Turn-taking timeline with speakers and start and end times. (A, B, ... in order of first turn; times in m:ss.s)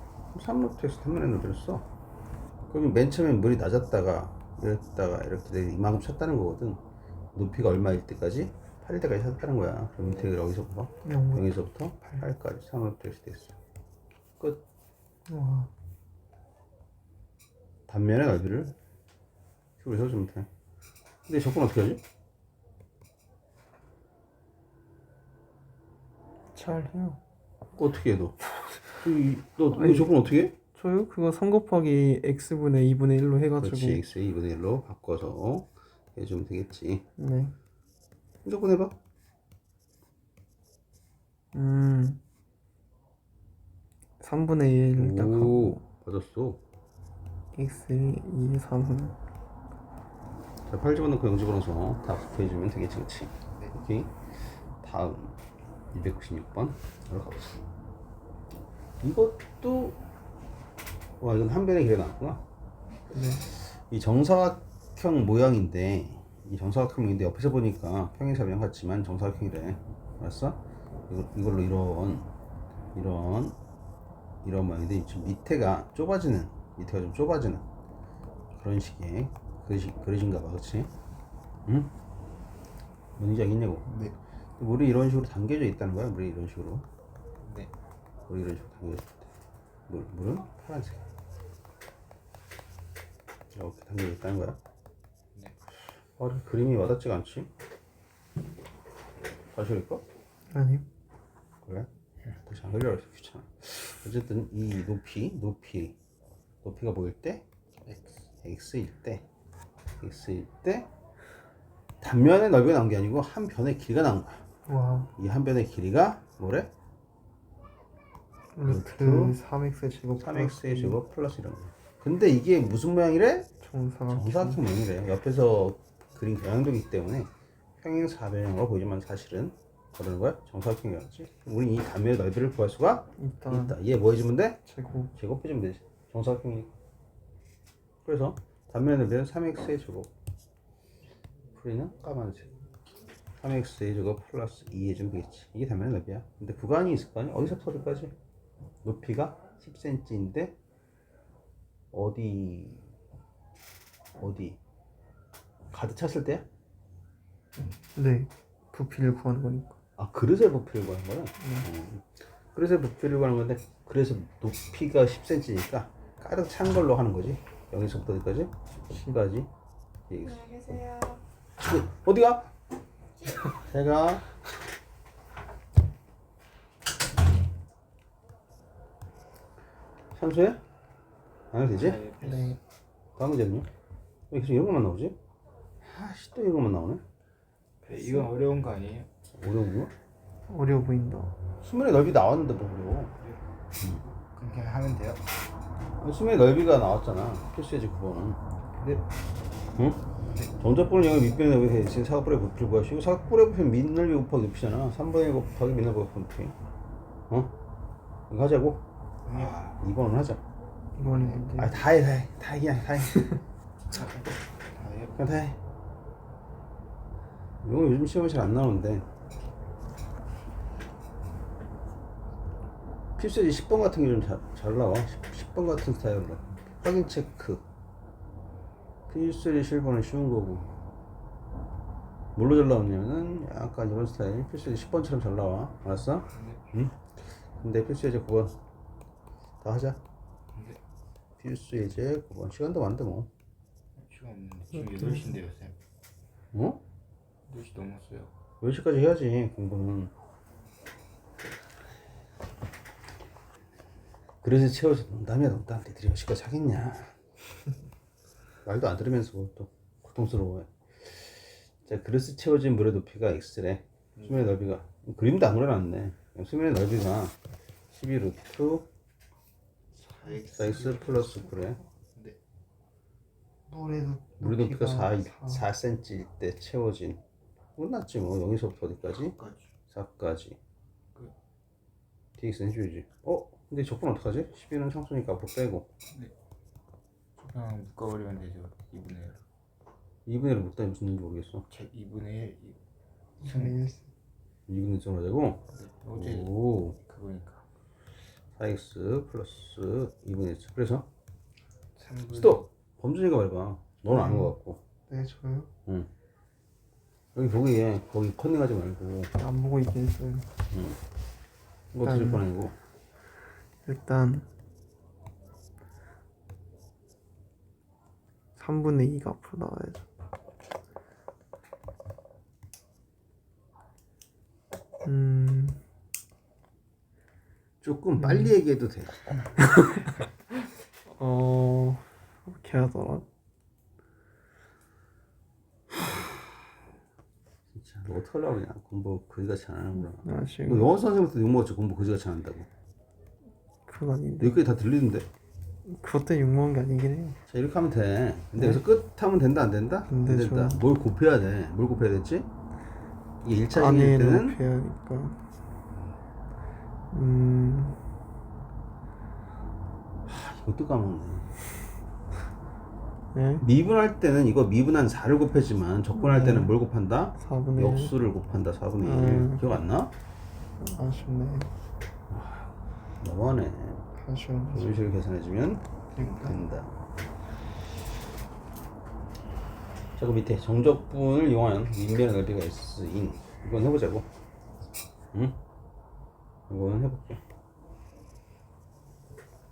0:00.3-0:01.9 A
0:02.7-0:06.8 A
0:07.4-0:13.6 A
0:11.0-0:11.5 B
0:15.3-0:15.7 B
0:17.9-0:18.8 A
0:19.8-0:20.5 A
0:21.3-0:22.0 A
0:26.5-0:27.2 B
0:27.8-0:28.4 A
0:28.6-0:28.8 B
0:29.0-0:30.5 A
0:29.7-0:30.2 B
0:30.8-0:34.0 B
0:33.6-0:37.0 A
0:37.2-0:37.6 B
0:38.4-0:39.0 A
0:41.5-0:42.2 B
0:44.2-0:45.8 B
0:44.9-0:46.6 A
0:47.5-0:49.2 B
0:50.7-0:54.1 A
0:54.8-0:55.4 A
0:55.9-0:57.6 A
0:59.0-1:00.0 A
1:01.2-1:02.4 A
1:03.1-1:03.5 B
1:03.5-1:12.3 A
1:13.0-1:13.6 A
1:14.4-1:17.6 A
1:18.5-1:20.9 A
1:21.7-1:21.9 A
1:23.2-1:23.9 A
1:23.9-1:24.2 C
1:24.6-1:26.8 A
1:27.4-1:27.7 C
1:28.3-1:29.3 A
1:29.9-1:31.0 A
1:33.5-1:34.6 A
1:36.2-1:37.5 A
1:39.5-1:40.0 A
1:40.5-1:40.9 B
1:42.4-1:46.0 A
1:46.6-1:47.4 A
1:47.9-1:48.1 C
1:48.4-1:49.2 A
1:50.0-1:50.9 A
1:52.0-1:54.4 A
1:54.7-1:55.1 B
1:55.2-1:56.7 A
1:58.6-2:01.0 B
1:58.6-1:59.4 A
2:00.2-2:03.5 A
2:03.6-2:04.6 B
2:04.1-2:14.6 A
2:13.2-2:13.8 B
2:14.7-2:15.1 B
2:15.2-2:16.7 A
2:18.0-2:20.1 A
2:21.6-2:22.5 A
2:23.4-2:28.1 A
2:28.8-2:30.6 A
2:31.9-2:32.8 A
2:34.2-2:34.6 A
2:35.7-2:36.4 A
2:38.0-2:39.8 B
2:40.0-2:49.5 A
2:41.4-2:41.7 B
2:50.1-2:52.5 A
2:53.6-2:54.3 A
3:00.2-3:00.6 A
3:01.5-3:02.0 A
3:01.7-3:02.6 C
3:02.2-3:02.6 B
3:03.2-3:03.7 A
3:04.3-3:05.2 A
3:05.8-3:07.0 A
3:07.8-3:09.1 C
3:09.3-3:09.9 A
3:10.5-3:11.4 B
3:11.6-3:13.1 A
3:14.4-3:15.2 C
3:16.0-3:18.4 A
3:19.8-3:20.0 A
3:20.6-3:26.6 A
3:28.3-3:30.4 A
3:29.2-3:29.7 C
3:31.0-3:31.8 B
3:31.0-3:31.6 C
3:31.6-3:33.4 A
3:33.9-3:35.2 C
3:35.2-3:35.6 A
3:37.6-3:39.1 A
3:43.2-3:47.6 A
3:49.1-3:50.7 A
3:52.4-3:58.6 A
3:56.3-3:56.6 C
3:59.6-4:00.0 A
4:00.5-4:00.8 C
4:01.4-4:03.3 A
4:04.0-4:05.8 C
4:06.5-4:06.8 A
4:07.5-4:08.3 C
4:08.6-4:10.1 A
4:14.4-4:17.2 A
4:18.6-4:27.4 A
4:24.2-4:24.5 C
4:27.9-4:28.9 A
4:30.2-4:31.0 C
4:30.2-4:31.4 B
4:30.6-4:31.8 A
4:33.7-4:35.6 B
4:34.4-4:37.2 A
4:37.8-4:39.4 A
4:39.4-4:39.6 C
4:39.9-4:40.6 A
4:42.4-4:45.9 A
4:47.4-4:49.4 C
4:50.3-4:51.6 A
4:51.7-4:52.8 C
4:53.4-4:54.1 B
4:53.4-4:53.8 C
4:54.7-4:55.6 A
4:55.7-4:57.6 C
4:56.1-4:57.0 A
4:58.6-5:01.1 A
5:02.0-5:02.7 C
5:02.3-5:04.8 A
5:04.1-5:04.5 B
5:05.1-5:05.7 B
5:07.4-5:09.3 A
5:09.4-5:10.5 B
5:10.7-5:11.0 A
5:11.9-5:12.8 A
5:12.0-5:12.4 B
5:13.9-5:14.5 B
5:18.6-5:20.1 B
5:25.0-5:25.8 B
5:27.8-5:29.4 A
5:28.2-5:28.5 B
5:29.6-5:30.1 B
5:31.1-5:33.3 B
5:37.7-5:42.7 A
5:40.0-5:41.0 B
5:43.9-5:44.6 B
5:44.4-5:45.3 A
5:45.8-5:47.4 B
5:47.5-5:52.5 A
5:48.6-5:48.8 B
5:50.1-5:50.8 B
5:53.4-5:54.6 A
5:53.7-5:55.4 B
5:57.1-5:58.0 B
6:00.3-6:01.5 A
6:03.3-6:03.7 B
6:03.6-6:10.1 A
6:06.2-6:06.7 B
6:07.4-6:08.2 B
6:09.0-6:09.8 B
6:10.8-6:11.7 B
6:12.3-6:14.0 A
6:14.2-6:15.0 B
6:14.7-6:16.9 A
6:16.2-6:16.6 B
6:20.2-6:24.3 A
6:25.3-6:25.6 A
6:26.7-6:27.4 A